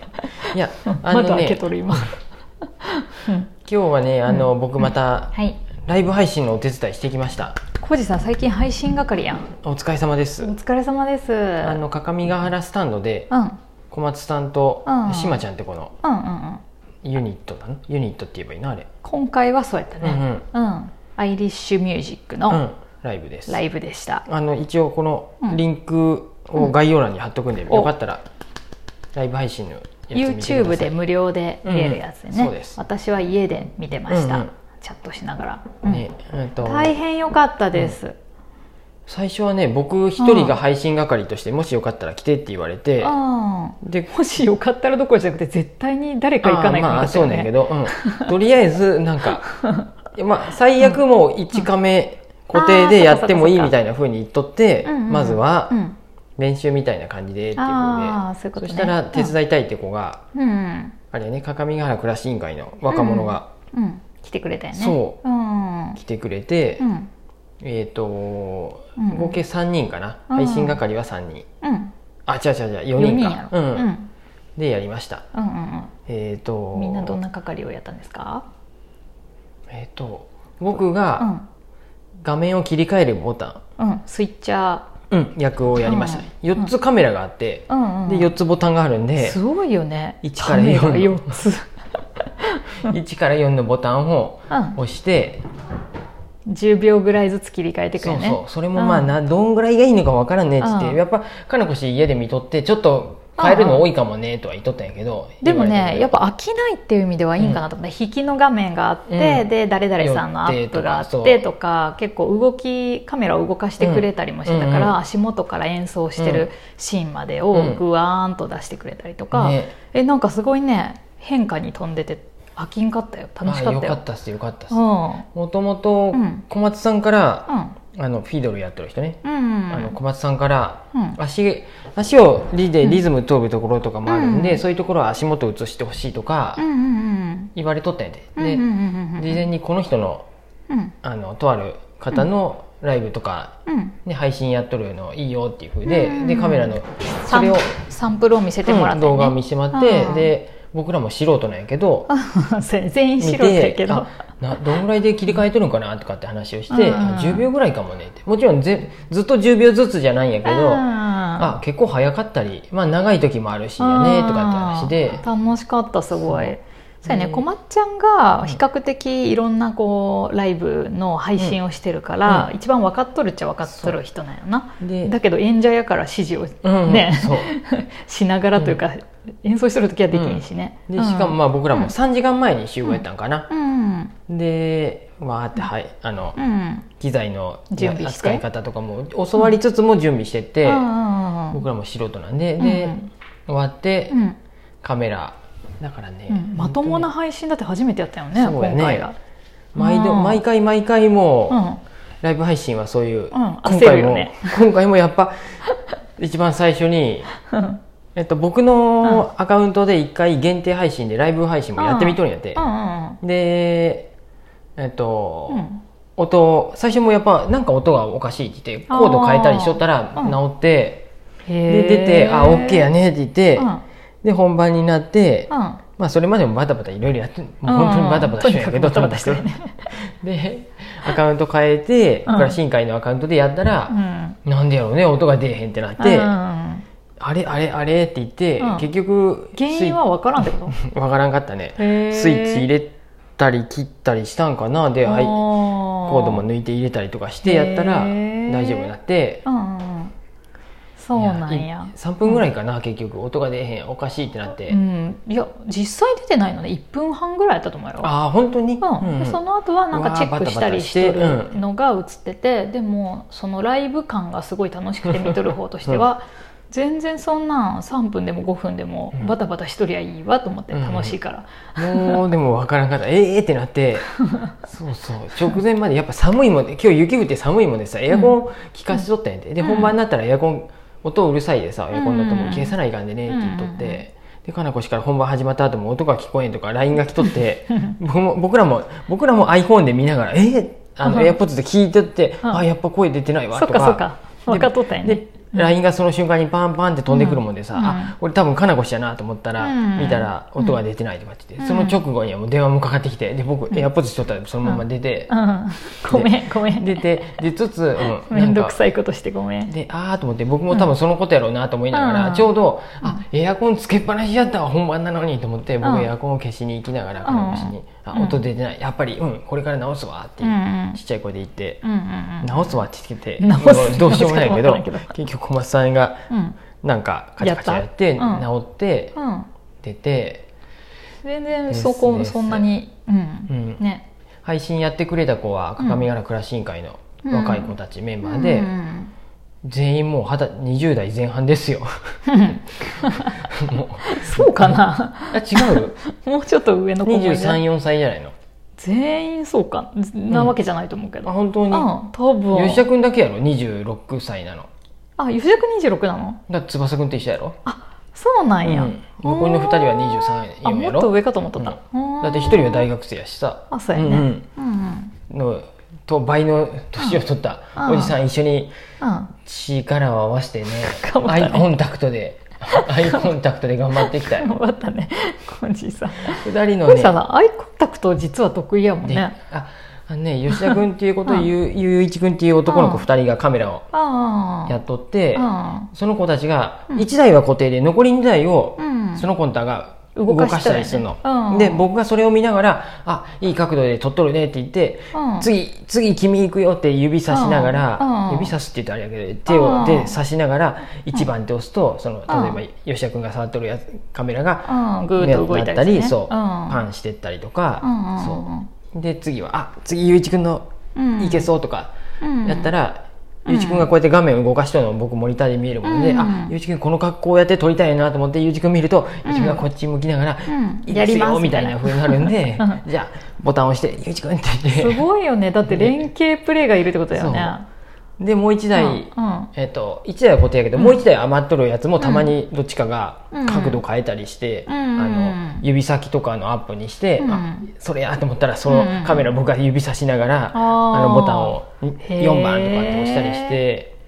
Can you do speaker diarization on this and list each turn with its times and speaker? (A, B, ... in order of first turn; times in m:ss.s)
0:00.2-0:02.2 A
0:00.5-0:02.1 B
0:02.8-0:03.5 A
0:03.6-0:07.6 B
0:05.3-0:05.6 A
0:07.8-0:09.5 A
0:09.5-0:10.5 B
0:10.4-0:11.8 A
0:11.6-0:13.3 B
0:13.3-0:13.6 A
0:13.9-0:15.9 B
0:14.9-0:15.4 A
0:16.0-0:16.6 A
0:17.0-0:18.9 B
0:19.0-0:22.6 A
0:20.0-0:20.4 B
0:22.5-0:23.6 B
0:23.5-0:24.2 A
0:24.2-0:28.2 B
0:29.1-0:31.0 B
0:30.1-0:36.0 A
0:31.6-0:32.8 B
0:34.1-0:34.5 B
0:35.8-0:37.0 B
0:36.6-0:38.2 A
0:39.1-0:43.2 B
0:40.2-0:40.6 A
0:43.0-0:48.3 A
0:43.8-0:44.1 B
0:46.4-0:49.4 B
0:49.5-0:49.9 A
0:50.1-0:55.8 B
0:52.5-0:53.7 A
0:54.8-0:56.0 A
0:56.4-1:00.2 B
0:57.6-0:59.3 A
1:00.4-1:01.0 A
1:01.1-1:03.5 B
1:02.9-1:06.0 A
1:04.7-1:05.2 B
1:06.0-1:06.9 B
1:06.8-1:07.1 A
1:07.6-1:11.5 B
1:09.0-1:09.4 A
1:10.3-1:10.8 A
1:11.6-1:11.9 A
1:12.3-1:13.9 B
1:13.0-1:14.1 A
1:14.6-1:15.2 B
1:15.3-1:15.9 A
1:16.1-1:17.2 B
1:16.8-1:18.4 A
1:19.7-1:21.3 B
1:21.2-1:21.5 A
1:22.2-1:23.6 B
1:23.8-1:24.9 A
1:25.1-1:29.4 B
1:25.8-1:26.7 A
1:27.7-1:28.3 A
1:29.2-1:31.7 A
1:30.2-1:31.4 B
1:32.2-1:32.9 A
1:32.8-1:35.4 B
1:34.5-1:34.8 A
1:36.5-1:39.1 A
1:38.0-1:46.3 B
1:40.6-1:41.0 A
1:43.4-1:43.9 A
1:45.4-2:04.0 A
1:47.4-1:47.6 B
1:49.1-1:49.5 B
1:50.0-1:51.5 B
1:53.8-1:55.0 B
1:56.2-1:56.5 B
1:57.5-1:57.8 B
1:59.3-1:59.7 B
2:03.4-2:04.8 B
2:04.7-2:05.3 A
2:05.3-2:16.7 B
2:06.1-2:06.4 A
2:07.5-2:07.8 A
2:09.2-2:10.0 A
2:14.1-2:14.6 A
2:16.6-2:17.5 A
2:17.6-2:18.7 B
2:18.4-2:19.5 A
2:19.2-2:20.3 B
2:20.7-2:20.9 A
2:21.0-2:23.5 B
2:23.7-2:24.0 A
2:24.0-2:27.7 B
2:25.8-2:30.3 A
2:28.7-2:32.1 B
2:32.1-2:34.1 A
2:33.2-2:45.2 B
2:36.7-2:37.5 A
2:40.4-2:41.5 A
2:43.8-3:01.9 A
2:46.2-2:47.5 B
2:52.3-2:52.5 B
2:53.7-2:54.0 B
2:54.8-2:55.2 B
2:56.6-2:57.5 B
3:00.1-3:03.5 B
3:02.8-3:04.1 A
3:04.3-3:06.4 B
3:06.4-3:06.9 A
3:07.0-3:10.9 B
3:07.7-3:08.4 A
3:10.6-3:11.6 A
3:11.5-3:14.2 B
3:12.6-3:13.1 A
3:14.1-3:14.4 A
3:14.8-3:17.1 B
3:16.3-3:19.2 A
3:18.3-3:19.1 B
3:19.7-3:21.6 B
3:19.8-3:20.4 A
3:21.5-3:21.8 A
3:22.2-3:25.6 B
3:23.3-3:24.6 A
3:26.2-3:27.3 B
3:27.5-3:27.8 A
3:28.2-3:32.6 B
3:31.8-3:33.2 A
3:33.2-3:34.1 B
3:34.8-3:35.7 B
3:35.5-3:35.8 A
3:36.2-3:41.1 B
3:38.9-3:40.4 A
3:41.5-3:42.9 A
3:41.7-3:43.7 B
3:43.6-3:43.8 A
3:44.2-3:56.3 B
3:45.5-3:45.8 A
3:47.6-3:49.9 A
3:52.3-3:52.6 A
3:53.9-3:54.4 A
3:56.0-3:56.8 A
3:57.2-4:00.0 B
3:58.6-3:58.8 A
3:59.6-4:00.8 A
4:00.7-4:09.4 B
4:01.8-4:02.7 A
4:05.0-4:06.4 A
4:07.4-4:08.9 A
4:09.5-4:10.1 A
4:11.0-4:12.4 A
4:11.2-4:14.8 B
4:14.7-4:18.1 A
4:18.0-4:19.4 B
4:18.8-4:32.2 A
4:19.9-4:21.6 B
4:25.1-4:26.1 B
4:30.7-4:31.2 B
4:31.8-5:05.3 B
4:39.6-4:39.9 A
4:41.9-4:42.8 A
4:43.3-4:44.0 A
4:51.0-4:51.4 A
4:53.5-4:55.7 A
4:57.1-4:58.1 A
4:59.6-5:00.8 A
5:01.6-5:02.0 A
5:04.6-5:07.4 A
5:06.1-5:08.8 B
5:08.0-5:09.7 A
5:09.7-5:21.8 B
5:11.9-5:13.2 A
5:15.8-5:16.1 A
5:17.2-5:18.4 A
5:20.4-5:21.0 A
5:21.8-5:22.8 A
5:22.4-5:26.2 B
5:23.4-5:25.1 A
5:26.3-5:26.6 A
5:26.8-5:29.2 B
5:27.4-5:28.5 A
5:29.2-5:29.5 A
5:29.8-5:30.5 B
5:31.2-5:34.0 A
5:31.7-5:32.7 B
5:33.5-5:33.8 B
5:34.4-5:38.7 B
5:35.8-5:36.1 A
5:37.2-5:39.1 A
5:39.6-5:41.9 B
5:42.3-5:43.5 A
5:43.3-5:46.0 B
5:44.0-5:47.6 A
5:47.1-5:48.3 B
5:48.8-5:52.8 A
5:50.3-5:50.6 B
5:51.2-5:51.9 B
5:52.5-5:54.7 B
5:55.2-5:56.4 A
5:56.5-5:57.6 B
5:57.6-6:02.9 A
5:58.6-6:04.5 B
6:03.7-6:05.1 A
6:05.3-6:08.7 B
6:07.8-6:08.2 A
6:09.0-6:09.3 A
6:09.4-6:14.6 B
6:10.8-6:11.7 A
6:12.7-6:13.2 A
6:14.0-6:19.4 A
6:16.3-6:17.2 B
6:19.0-6:23.9 B
6:20.5-6:21.5 A
6:22.7-6:23.0 A
6:23.9-6:24.8 A
6:24.7-7:05.0 B
6:25.4-6:25.9 A
6:28.8-6:29.3 A
6:30.2-6:31.8 A
6:35.1-6:35.5 A
6:37.3-6:38.5 A
6:39.5-6:40.2 A
6:42.3-6:42.6 A
6:44.6-6:46.8 A
6:47.8-6:48.7 A
6:51.0-6:51.5 A
6:52.2-6:52.7 A
6:53.5-6:53.9 A
6:55.8-6:56.5 A
6:59.2-6:59.6 A
7:00.5-7:02.8 A
7:04.7-7:07.6 A
7:05.7-7:06.1 B
7:07.1-7:07.6 B
7:08.2-7:23.9 B
7:08.8-7:09.5 A
7:10.8-7:11.0 A
7:12.0-7:12.3 A
7:13.3-7:13.8 A
7:14.7-7:15.6 A
7:17.2-7:17.7 A
7:18.7-7:19.3 A
7:20.5-7:23.6 A